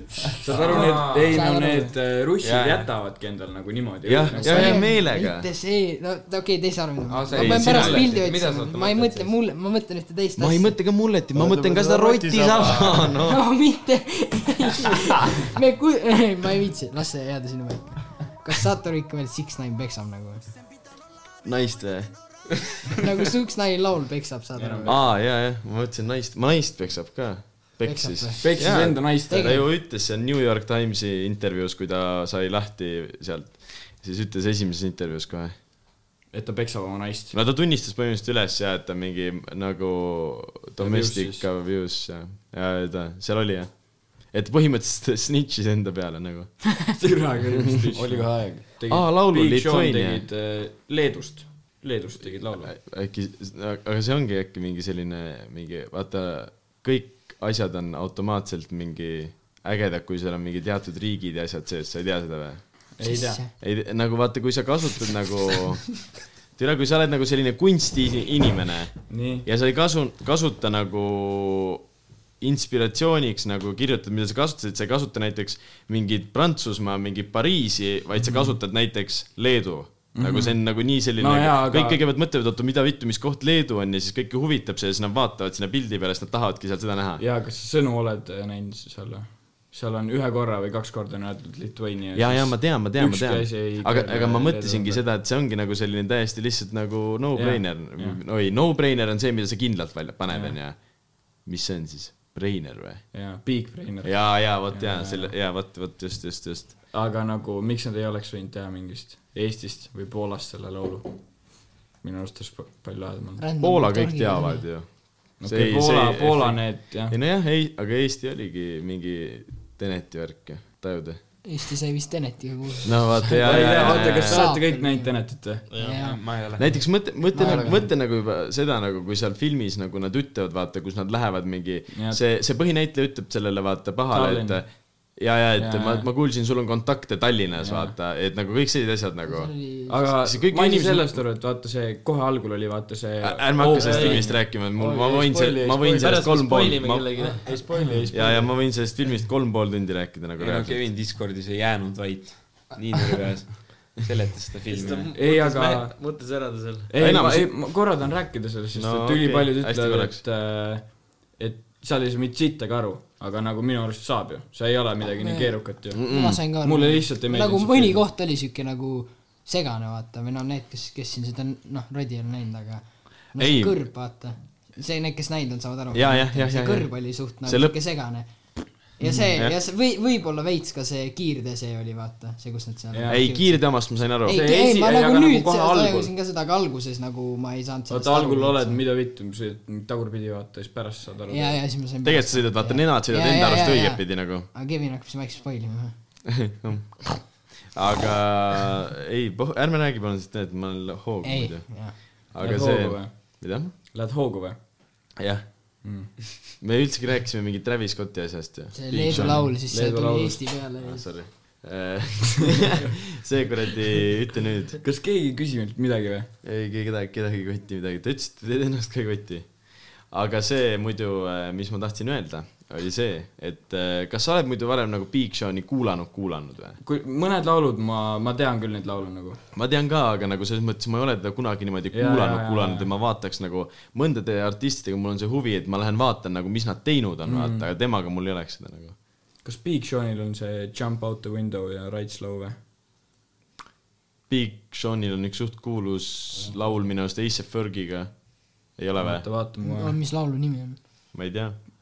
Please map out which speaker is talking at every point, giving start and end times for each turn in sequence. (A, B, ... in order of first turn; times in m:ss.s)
0:00.4-0:04.9 A
0:00.5-0:01.4 B
0:00.6-0:01.9 C
0:02.4-0:02.9 B
0:04.0-0:05.5 D
0:04.4-0:11.1 C
0:07.0-0:09.4 B
0:07.3-0:08.1 D
0:10.4-0:13.5 D
0:11.4-0:13.1 E
0:12.4-0:13.1 B
0:13.1-0:20.5 C
0:21.4-0:22.5 D
0:23.0-0:25.0 C
0:24.6-0:25.0 A
0:24.9-0:35.6 D
0:27.8-0:29.7 C
0:28.4-0:29.6 A
0:36.3-0:37.4 A
0:37.3-0:46.6 D
0:40.8-0:41.5 A
0:47.0-0:52.7 A
0:48.0-0:48.6 E
0:48.9-0:50.2 D
0:52.2-1:03.0 D
1:03.0-1:03.4 A
1:03.0-1:03.5 C
1:03.6-1:11.9 D
1:09.1-1:09.5 A
1:12.4-1:27.2 D
1:18.2-1:18.6 A
1:20.1-1:22.0 A
1:27.2-1:35.1 A
1:32.1-1:43.2 D
1:37.4-1:38.2 A
1:40.3-1:40.6 A
1:43.1-1:45.3 A
1:44.0-1:46.8 D
1:46.9-1:53.4 A
1:53.4-1:54.8 C
1:53.6-2:01.4 D
1:55.4-1:57.2 A
2:01.4-2:06.3 C
2:02.8-2:04.5 D
2:03.4-2:05.7 A
2:05.7-2:06.0 F
2:05.8-2:06.9 B
2:06.5-2:19.5 D
2:07.2-2:07.9 C
2:07.4-2:07.9 E
2:11.9-2:12.2 A
2:14.1-2:16.1 A
2:17.6-2:18.0 A
2:19.2-2:20.1 C
2:19.9-2:24.4 A
2:20.1-2:21.2 D
2:23.2-2:27.1 D
2:23.8-2:24.3 F
2:24.8-2:26.4 E
2:26.0-2:27.5 F
2:27.2-2:28.5 E
2:27.9-2:28.1 B
2:28.1-2:30.8 D
2:30.4-2:35.1 B
2:34.6-2:36.9 F
2:35.1-2:36.0 A
2:36.9-2:48.0 A
2:37.0-2:37.7 D
2:38.7-2:40.2 D
2:45.2-3:08.9 C
2:45.9-2:46.4 D
2:53.4-2:53.9 D
2:55.9-2:57.7 D
3:02.9-3:03.6 A
3:03.1-3:04.4 D
3:04.3-3:06.1 A
3:07.9-3:11.6 A
3:11.3-3:16.2 C
3:12.0-3:14.5 D
3:16.4-3:23.7 D
3:21.2-3:22.0 C
3:22.4-3:24.6 A
3:25.2-3:25.8 D
3:25.8-3:26.2 A
3:26.6-3:29.5 D
3:28.7-3:31.3 C
3:29.0-3:30.6 A
3:30.8-3:34.8 D
3:34.8-3:36.3 A
3:36.4-3:46.8 D
3:46.8-3:49.4 A
3:49.5-3:59.0 D
3:51.9-3:52.9 A
3:57.2-3:57.7 A
3:59.4-4:02.6 A
4:04.3-4:09.3 D
4:06.3-4:06.8 E
4:09.0-4:10.0 A
4:09.6-4:10.8 C
4:11.1-4:11.7 D